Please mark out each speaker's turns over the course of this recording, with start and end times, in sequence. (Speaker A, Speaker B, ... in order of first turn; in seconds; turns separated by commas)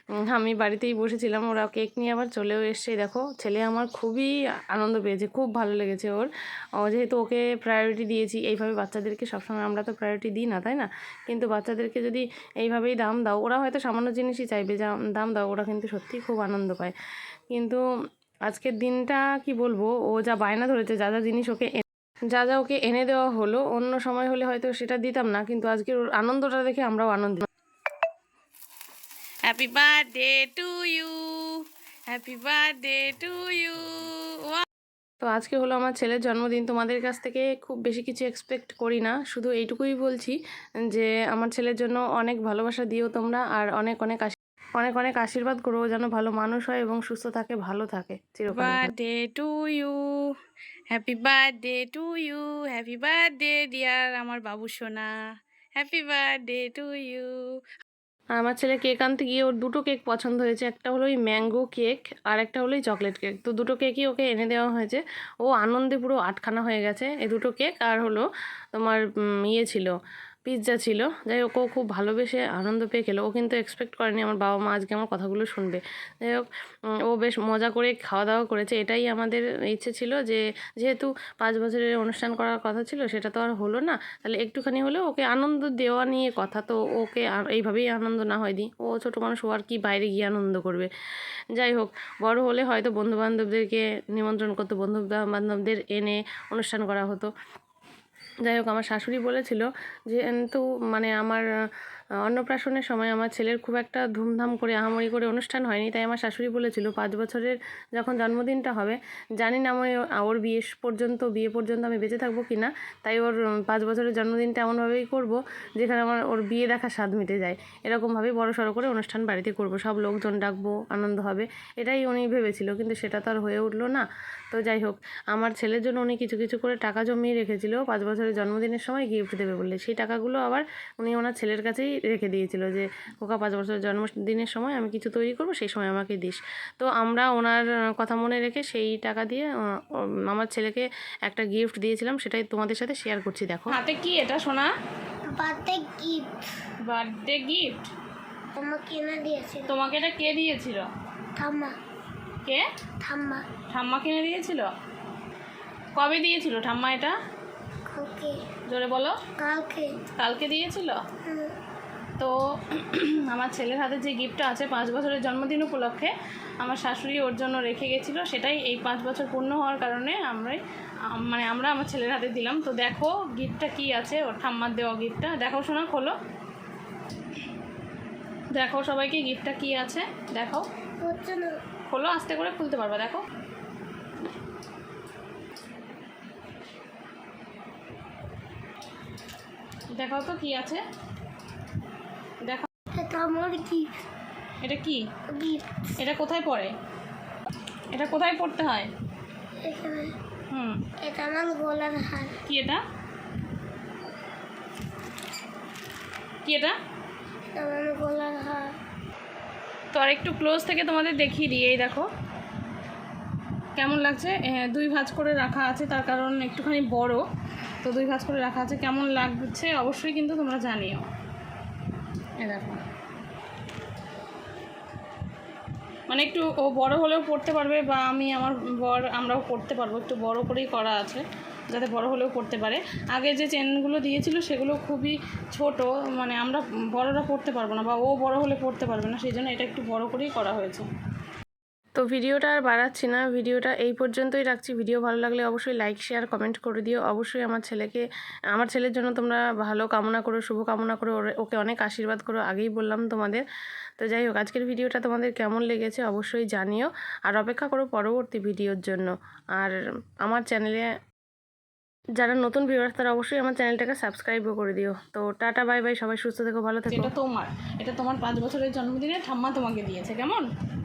Speaker A: 0.3-16.9, Speaker A: 17.5-17.8, Speaker A: 18.5-27.5, Speaker B: 29.5-34.6, Speaker A: 35.2-40.4, Speaker A: 40.9-48.9, Speaker B: 48.5-50.2, Speaker B: 50.9-55.1, Speaker B: 55.8-57.4, Speaker A: 58.4-69.9, Speaker A: 70.5-76.5, Speaker A: 77.0-90.9, Speaker A: 91.5-97.3, Speaker A: 98.5-101.4, Speaker A: 102.2-139.5, Speaker A: 140.3-143.8, Speaker B: 143.7-144.7, Speaker C: 145.3-146.4, Speaker B: 146.8-147.9, Speaker C: 148.6-149.8, Speaker B: 149.7-150.9, Speaker C: 151.4-151.7, Speaker C: 153.0-153.4, Speaker B: 153.7-154.7, Speaker B: 156.0-157.2, Speaker C: 157.9-158.4, Speaker B: 158.7-159.2, Speaker C: 159.4-160.0, Speaker B: 160.2-161.0, Speaker C: 161.3-161.5, Speaker B: 162.2-176.2, Speaker B: 178.5-180.7, Speaker C: 181.0-181.6, Speaker B: 181.9-183.2, Speaker B: 189.9-190.8, Speaker B: 192.4-192.7, Speaker C: 192.9-194.0, Speaker B: 194.6-195.1, Speaker C: 195.3-195.9, Speaker B: 196.0-196.8, Speaker B: 197.9-198.9, Speaker C: 199.6-200.2, Speaker B: 200.5-200.8, Speaker C: 201.0-202.4, Speaker B: 202.5-202.8, Speaker B: 206.4-206.8, Speaker C: 207.6-208.7, Speaker B: 209.9-212.1, Speaker B: 213.8-217.3, Speaker B: 217.8-221.1, Speaker B: 222.4-222.8, Speaker B: 226.1-240.9, Speaker A: 241.9-253.4, Speaker A: 254.0-260.9, Speaker A: 262.2-267.1, Speaker B: 266.9-270.5